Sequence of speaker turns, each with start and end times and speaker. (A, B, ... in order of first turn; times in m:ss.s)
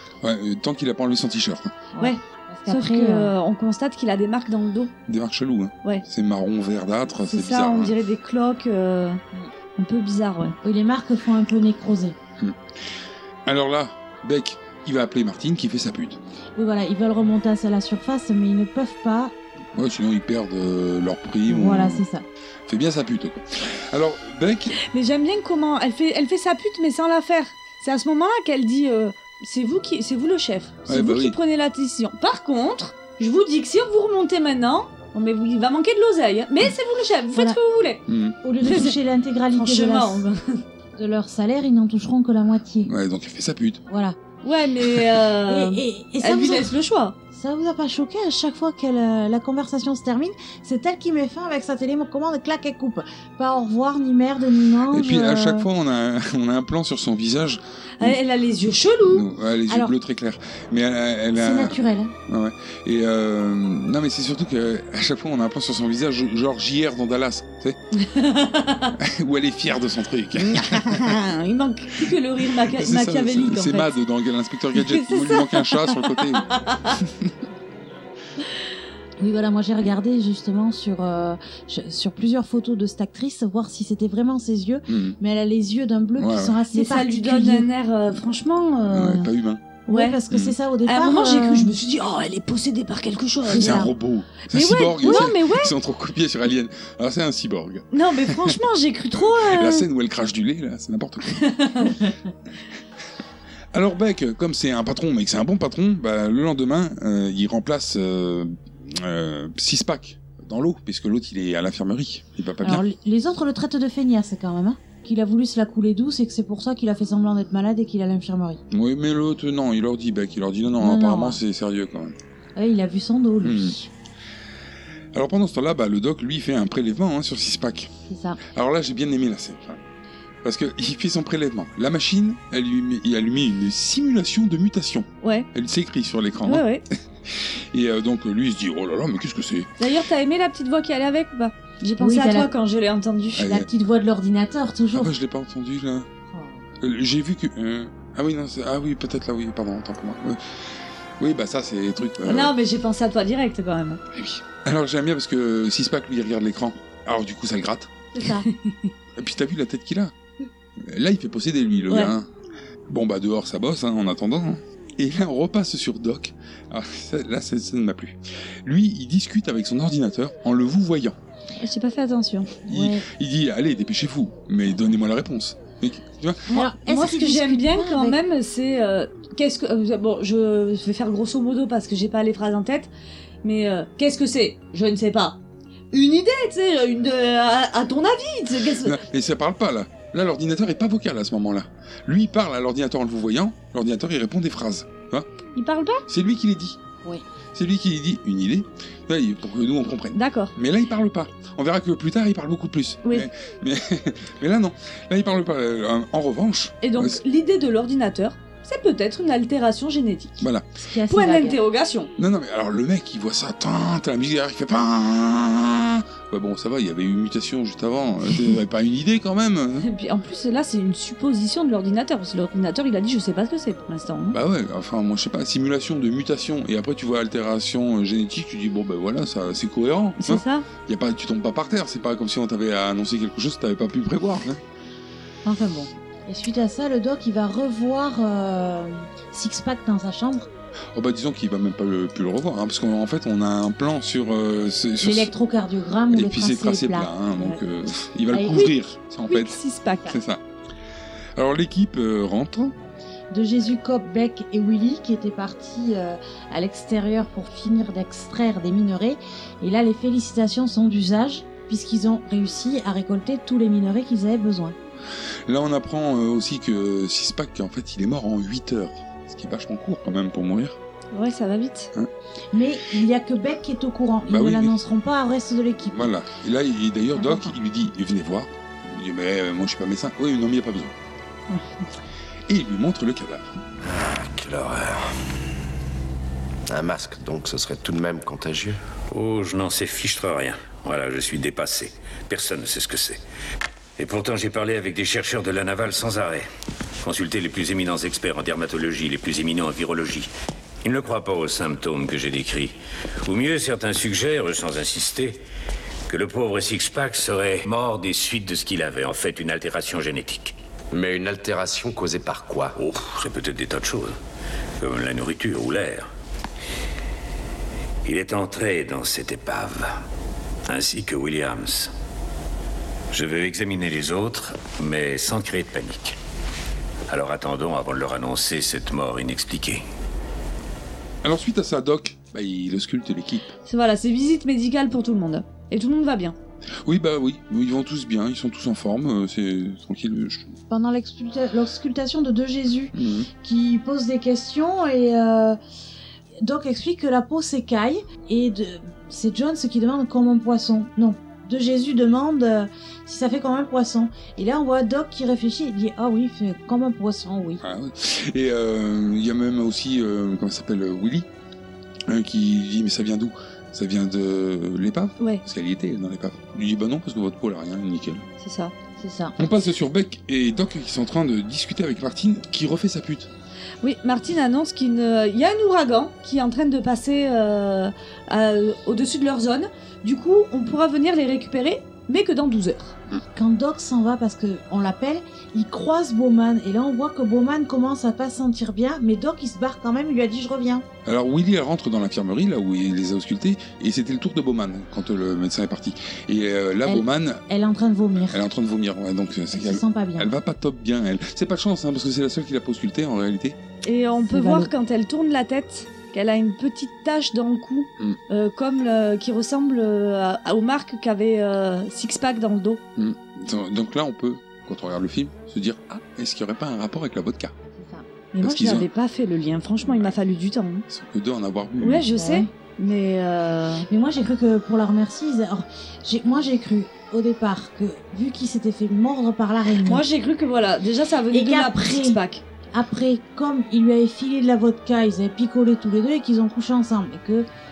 0:00.2-0:01.8 A
0:01.9-0:03.3 B
0:02.0-0:04.9 C
0:05.1-0:07.9 A
0:07.3-0:09.2 C
0:09.8-0:10.6 C
0:10.6-0:12.2 B
0:13.5-0:16.2 A
0:16.6-0:19.4 B
0:19.7-0:22.0 A
0:21.5-0:22.2 B
0:22.7-0:24.8 A
0:24.8-0:38.0 C
0:30.9-0:31.4 A
0:38.1-0:38.4 A
0:38.4-0:40.2 B
0:38.6-0:39.0 C
0:39.5-0:40.6 C
0:41.0-0:42.9 B
0:42.9-0:43.8 A
0:43.9-0:44.2 B
0:44.4-0:47.2 C
0:45.5-0:46.7 B
0:47.3-0:55.7 B
0:54.9-0:58.2 A
0:58.0-0:59.3 C
0:59.1-1:07.8 A
0:59.7-1:00.0 B
1:01.3-1:02.1 B
1:07.9-1:09.0 C
1:09.0-1:11.2 A
1:10.5-1:13.9 C
1:12.7-1:17.3 A
1:14.8-1:17.0 C
1:19.2-1:27.7 B
1:24.9-1:25.2 A
1:26.2-1:26.6 A
1:26.7-1:29.3 C
1:28.9-1:29.6 A
1:29.9-1:30.2 C
1:29.9-1:31.7 B
1:30.3-1:30.6 A
1:30.8-1:33.9 C
1:33.5-1:33.9 B
1:33.5-1:38.6 A
1:34.5-1:35.7 C
1:37.9-1:39.9 C
1:39.2-1:41.5 A
1:41.3-1:42.0 C
1:43.7-1:52.8 A
1:52.6-1:58.6 B
1:58.7-2:02.2 A
2:00.8-2:01.4 B
2:02.6-2:03.9 B
2:03.4-2:03.8 A
2:05.1-2:07.9 A
2:08.1-2:08.4 B
2:08.5-2:09.8 A
2:10.4-2:16.7 A
2:16.5-2:16.8 C
2:17.3-2:19.7 A
2:19.8-2:23.5 C
2:22.0-2:22.5 B
2:23.4-2:23.7 A
2:23.4-2:25.1 B
2:24.9-2:26.1 A
2:26.3-2:26.6 B
2:26.8-2:30.4 A
2:31.2-2:32.5 A
2:32.2-2:34.0 C
2:34.2-2:37.9 A
2:38.2-2:38.5 B
2:38.2-2:38.9 C
2:39.2-2:40.1 A
2:40.8-2:42.3 A
2:42.9-2:51.2 A
2:51.6-2:52.5 C
2:52.6-2:56.5 A
2:52.7-2:53.1 B
2:56.5-3:02.9 C
2:56.5-2:58.2 B
3:03.4-3:05.4 C
3:05.9-3:09.0 C
3:08.8-3:15.3 A
3:15.6-3:16.0 C
3:16.1-3:16.8 A
3:17.6-3:27.2 A
3:20.1-3:20.5 C
3:26.8-3:30.4 C
3:30.8-3:31.6 B
3:31.1-3:32.1 C
3:32.2-3:39.9 A
3:39.8-3:44.4 C
3:44.3-3:54.6 A
3:50.2-3:50.7 C
3:55.4-4:00.5 B
4:01.0-4:05.3 A
4:05.0-4:07.6 B
4:06.1-4:10.4 A
4:08.3-4:08.7 B
4:09.3-4:10.2 C
4:11.4-4:12.7 A
4:13.3-4:24.8 B
4:25.5-4:30.8 A
4:31.1-4:31.9 C
4:32.5-4:36.1 B
4:34.3-4:34.8 A
4:35.9-4:40.9 A
4:37.2-4:37.5 B
4:41.5-4:41.9 C
4:42.5-4:43.6 A
4:43.8-4:45.1 D
4:46.7-4:48.8 D
4:49.1-4:53.2 E
4:54.0-4:56.5 E
4:57.0-5:00.3 E
5:00.8-5:05.4 E
5:06.1-5:10.6 E
5:10.9-5:12.8 D
5:12.8-5:14.2 E
5:14.8-5:16.1 E
5:18.0-5:20.0 E
5:20.7-5:21.9 E
5:23.1-5:26.2 E
5:27.1-5:29.8 E
5:31.2-5:33.5 A
5:33.7-5:36.4 C
5:36.8-5:40.6 A
5:40.7-5:45.6 B
5:43.0-5:43.3 A
5:46.4-5:57.6 B
5:57.6-6:01.3 A
6:02.1-6:08.2 A
6:08.4-6:08.7 C
6:09.0-6:09.4 B
6:09.4-6:13.3 A
6:13.8-6:23.0 C
6:23.4-6:30.9 B
6:31.0-6:37.4 A
6:36.8-6:38.4 B
6:38.3-6:43.6 A
6:39.5-6:40.3 B
6:43.8-6:52.8 C
6:44.2-6:44.7 B
6:53.0-6:57.5 A
6:57.8-6:58.1 B
6:58.3-7:00.8 C
6:58.4-6:58.9 A
6:59.8-7:00.1 A
7:00.9-7:02.1 A
7:01.8-7:03.9 C
7:02.1-7:02.5 B
7:03.9-7:10.0 B
7:09.8-7:12.4 C
7:11.3-7:12.2 B
7:12.7-7:17.5 B